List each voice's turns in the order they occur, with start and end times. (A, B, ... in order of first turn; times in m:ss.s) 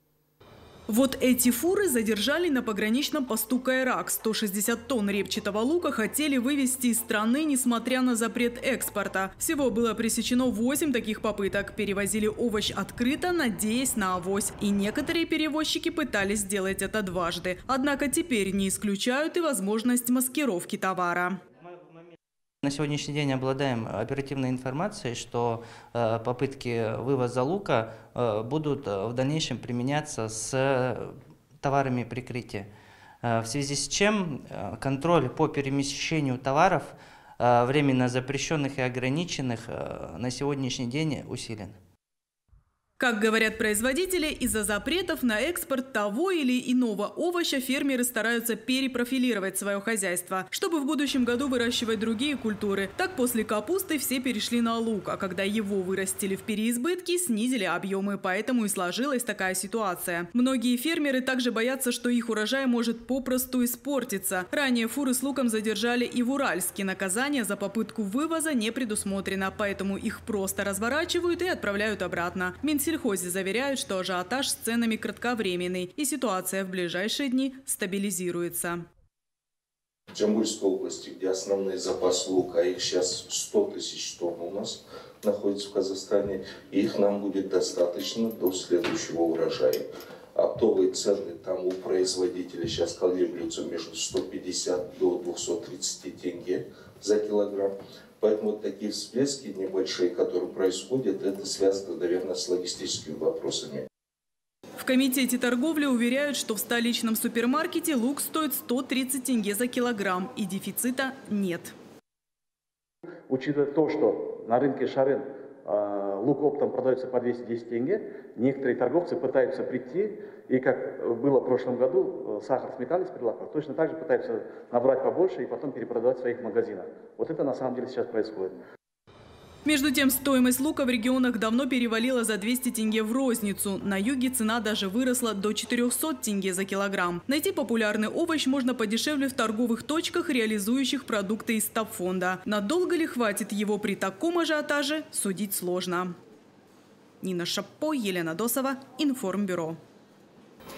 0:00.9-0:21.4 A
0:21.7-0:22.1 B
0:22.6-0:32.7 B
0:33.2-0:41.8 B
0:43.0-1:18.8 A
1:20.1-1:43.9 C
1:44.8-1:51.7 A
1:53.3-2:08.6 D
2:09.6-2:26.1 A
2:27.2-2:29.8 A